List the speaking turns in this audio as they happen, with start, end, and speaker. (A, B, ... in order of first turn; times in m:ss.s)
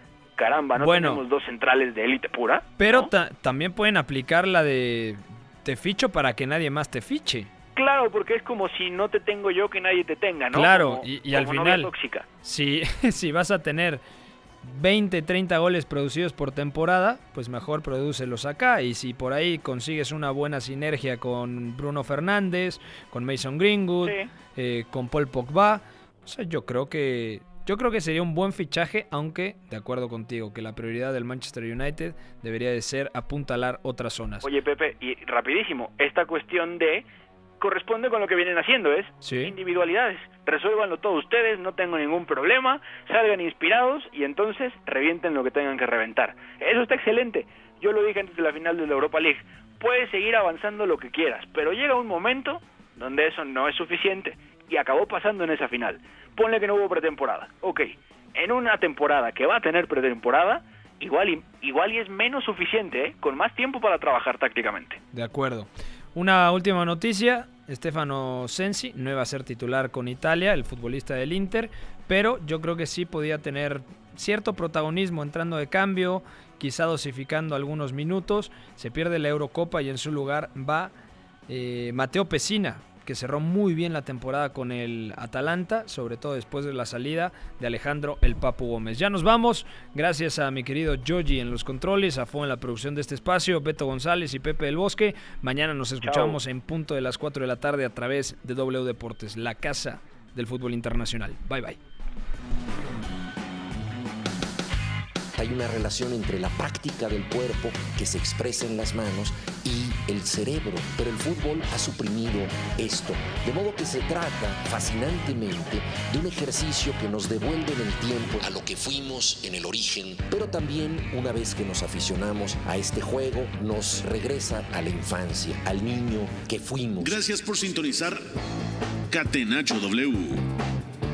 0:00.4-0:03.1 A
0:00.8-0:01.2 B
0:02.8-0:07.5 B
0:07.8-0:12.2 A
0:10.5-0:11.9 B
0:12.4-0:14.0 B
0:14.6-0:34.5 B
0:34.4-0:37.0 A
0:37.6-1:05.0 A
0:39.2-0:39.5 B
1:05.1-1:20.9 B
1:21.5-1:41.8 B
1:36.0-1:36.4 A
1:45.4-2:07.2 C
2:07.0-2:08.2 D
2:09.1-2:10.4 D